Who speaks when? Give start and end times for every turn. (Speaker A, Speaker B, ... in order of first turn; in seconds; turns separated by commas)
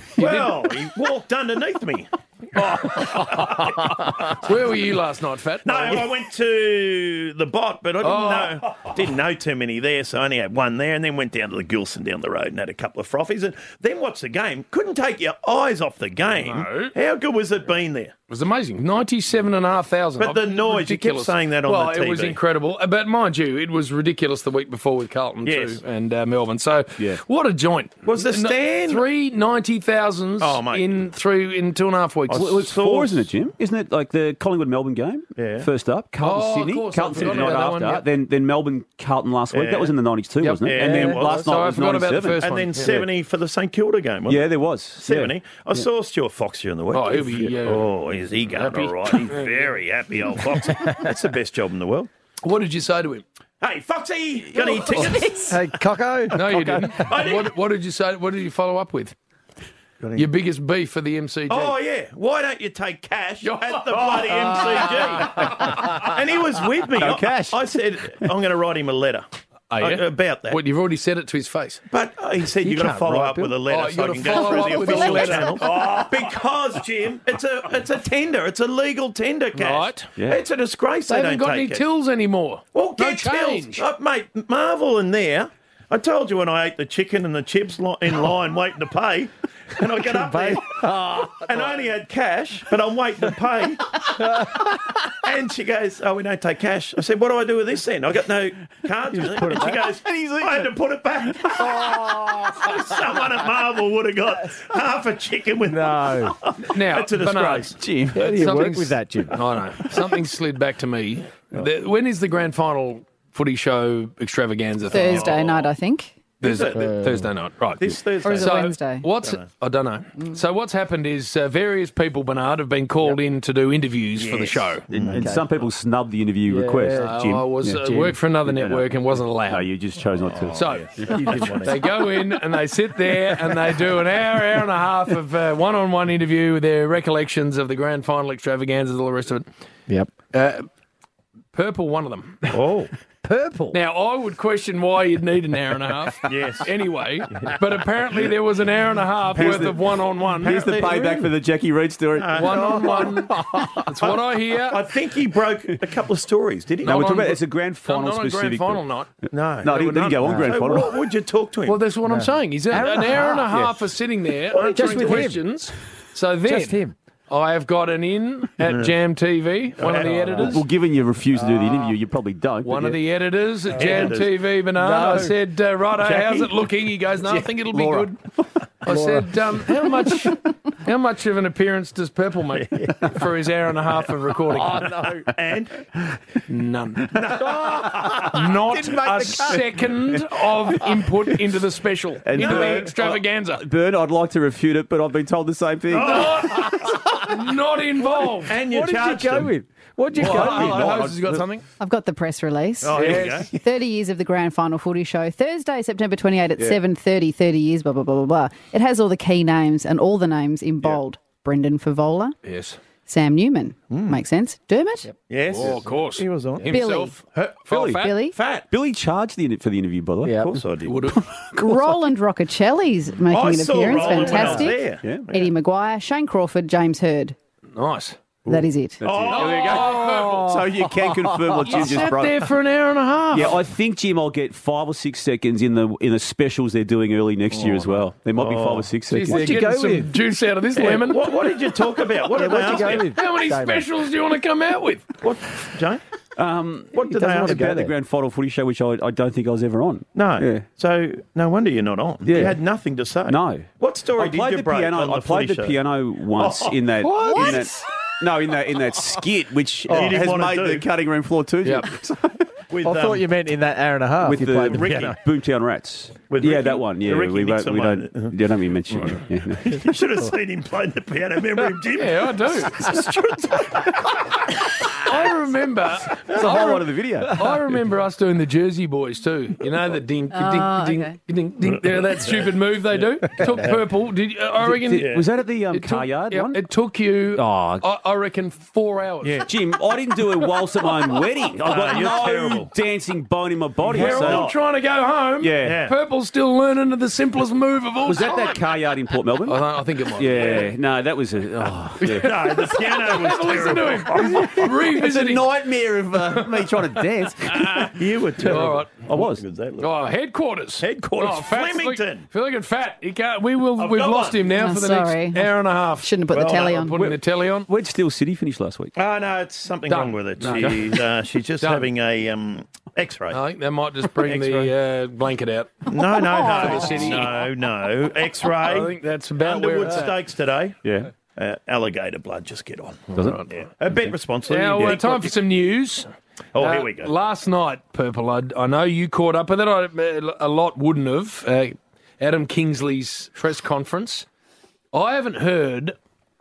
Speaker A: 0.2-0.5, Speaker B: 0.2-4.5, Speaker A: 4.4-6.1, Speaker B: 5.6-18.1, Speaker A: 8.0-8.6, Speaker A: 16.3-16.9, Speaker A: 18.3-32.5, Speaker B: 20.2-22.4, Speaker B: 25.4-25.8, Speaker B: 28.1-29.0, Speaker B: 30.4-30.9, Speaker B: 32.3-33.3, Speaker C: 32.3-43.0, Speaker B: 35.4-35.7, Speaker A: 36.2-38.0, Speaker B: 37.2-37.5, Speaker B: 39.5-40.0, Speaker A: 40.4-43.0, Speaker B: 40.6-41.5, Speaker D: 40.8-41.4, Speaker B: 42.4-52.1, Speaker C: 44.3-45.9, Speaker A: 46.9-47.9, Speaker A: 48.5-49.7, Speaker A: 52.4-53.2, Speaker B: 53.6-55.6, Speaker D: 55.4-57.1, Speaker A: 56.3-59.1, Speaker B: 57.0-57.5, Speaker A: 60.1-61.8, Speaker B: 61.5-69.2, Speaker A: 63.4-65.6, Speaker C: 67.0-67.5, Speaker A: 69.7-71.8, Speaker B: 69.8-70.6, Speaker B: 71.9-81.8, Speaker D: 72.6-73.6, Speaker A: 73.7-76.0, Speaker A: 79.5-80.1, Speaker C: 80.2-80.4, Speaker A: 81.1-83.8, Speaker B: 82.7-90.8, Speaker D: 90.0-91.7, Speaker B: 91.4-94.2, Speaker B: 95.2-107.8, Speaker D: 99.1-99.9, Speaker C: 100.0-100.7, Speaker D: 101.8-102.5, Speaker D: 105.7-106.3, Speaker A: 106.7-115.5, Speaker C: 107.8-108.4, Speaker D: 108.1-109.4, Speaker E: 114.9-116.2, Speaker B: 114.9-115.7, Speaker A: 116.4-124.8, Speaker B: 116.4-116.9, Speaker D: 116.7-117.3, Speaker B: 117.8-119.4, Speaker E: 118.2-119.1, Speaker B: 124.2-125.3, Speaker C: 124.9-130.8, Speaker D: 125.0-125.4, Speaker D: 126.5-127.2, Speaker A: 126.9-129.7, Speaker D: 127.8-128.2, Speaker B: 130.3-131.4, Speaker A: 130.5-139.4, Speaker D: 131.1-131.8, Speaker A: 140.3-140.7, Speaker A: 141.5-142.5, Speaker B: 142.5-142.9, Speaker D: 143.2-143.8, Speaker A: 143.7-150.6, Speaker B: 146.3-146.7, Speaker C: 149.3-149.8, Speaker B: 149.3-151.3, Speaker C: 150.4-152.5, Speaker B: 152.2-153.3, Speaker A: 152.3-154.8, Speaker D: 152.6-153.8, Speaker B: 154.0-157.1, Speaker C: 156.8-158.8, Speaker A: 156.8-159.1, Speaker B: 159.3-161.9, Speaker C: 159.6-160.9, Speaker A: 159.7-160.1, Speaker D: 160.2-160.5, Speaker A: 161.7-170.6, Speaker D: 162.0-163.5, Speaker B: 164.5-165.3, Speaker D: 164.5-165.4, Speaker D: 166.4-166.9, Speaker B: 168.6-168.9, Speaker B: 169.8-170.4, Speaker D: 170.0-170.4, Speaker C: 170.4-173.0, Speaker D: 171.3-171.9, Speaker A: 172.6-178.2, Speaker B: 173.7-174.3, Speaker D: 174.8-175.3, Speaker B: 176.0-176.5, Speaker C: 177.7-178.1, Speaker A: 178.8-184.9, Speaker D: 178.9-179.3, Speaker B: 184.6-185.8, Speaker D: 184.7-185.2, Speaker A: 186.5-187.3, Speaker B: 187.1-188.4, Speaker D: 187.6-187.8, Speaker A: 188.2-193.6, Speaker D: 188.7-189.6, Speaker C: 192.2-196.5, Speaker B: 192.4-192.9, Speaker B: 195.9-197.0, Speaker A: 196.0-198.6, Speaker B: 198.4-199.5, Speaker D: 198.6-201.0, Speaker A: 200.1-201.6, Speaker C: 200.2-201.4, Speaker B: 200.3-200.8, Speaker E: 201.8-212.3, Speaker B: 202.8-203.5, Speaker A: 202.9-203.5, Speaker A: 212.4-212.8, Speaker E: 213.1-215.1, Speaker B: 213.9-214.2, Speaker B: 215.3-216.7, Speaker A: 215.5-218.2, Speaker E: 216.7-217.2, Speaker C: 217.7-218.1, Speaker E: 218.0-218.3, Speaker B: 218.3-218.7, Speaker C: 218.7-220.4, Speaker D: 220.2-220.6, Speaker B: 220.4-221.0, Speaker A: 220.8-221.2, Speaker C: 221.2-221.9, Speaker E: 221.6-227.3, Speaker B: 223.3-225.5, Speaker D: 224.0-224.7, Speaker A: 227.8-228.2, Speaker E: 228.5-229.0, Speaker B: 228.5-230.0, Speaker C: 229.0-232.5, Speaker A: 229.3-230.6, Speaker D: 230.0-231.9, Speaker A: 231.7-233.6, Speaker C: 233.3-239.7, Speaker D: 237.5-238.0, Speaker B: 238.4-238.9, Speaker A: 239.1-241.3, Speaker D: 239.2-240.1, Speaker B: 240.8-243.1, Speaker D: 242.3-243.8, Speaker A: 242.8-245.1, Speaker B: 245.2-246.0, Speaker C: 246.3-250.7, Speaker B: 246.9-247.8, Speaker D: 247.3-247.9, Speaker B: 250.1-255.8, Speaker C: 252.2-252.6, Speaker C: 253.3-262.2, Speaker B: 256.3-257.7, Speaker D: 257.1-257.6, Speaker B: 259.9-260.9, Speaker B: 262.7-263.3, Speaker D: 262.8-265.1, Speaker C: 264.2-269.8, Speaker B: 264.6-265.1, Speaker B: 266.3-268.3, Speaker B: 269.0-273.9, Speaker A: 271.9-272.8, Speaker A: 275.0-285.2, Speaker C: 276.3-277.4, Speaker E: 280.3-281.1, Speaker B: 282.2-283.8, Speaker C: 284.6-286.6, Speaker A: 285.7-289.4, Speaker C: 287.3-287.9, Speaker B: 289.2-289.5, Speaker C: 289.4-294.5, Speaker B: 291.6-292.7, Speaker B: 293.8-294.6, Speaker A: 293.9-298.6, Speaker C: 295.4-295.8, Speaker B: 295.6-295.9, Speaker C: 298.0-299.6, Speaker A: 299.5-300.7, Speaker C: 300.2-302.3, Speaker B: 300.4-300.7, Speaker A: 302.0-305.5, Speaker B: 302.1-304.7, Speaker C: 304.4-307.9, Speaker A: 306.3-307.9, Speaker B: 307.9-310.0, Speaker A: 308.4-308.9, Speaker C: 309.1-309.4, Speaker A: 309.8-317.7, Speaker B: 310.8-312.2, Speaker B: 313.8-314.4, Speaker E: 314.5-317.1, Speaker B: 316.3-317.1, Speaker C: 317.7-318.9, Speaker B: 318.9-323.4, Speaker A: 319.9-321.0, Speaker A: 321.6-321.9, Speaker A: 323.3-327.4, Speaker B: 324.2-324.7, Speaker B: 325.9-330.8, Speaker A: 328.6-330.2, Speaker C: 330.8-331.1, Speaker B: 331.3-335.4, Speaker C: 333.1-333.4, Speaker A: 334.5-344.2, Speaker B: 336.5-337.1, Speaker A: 344.9-345.9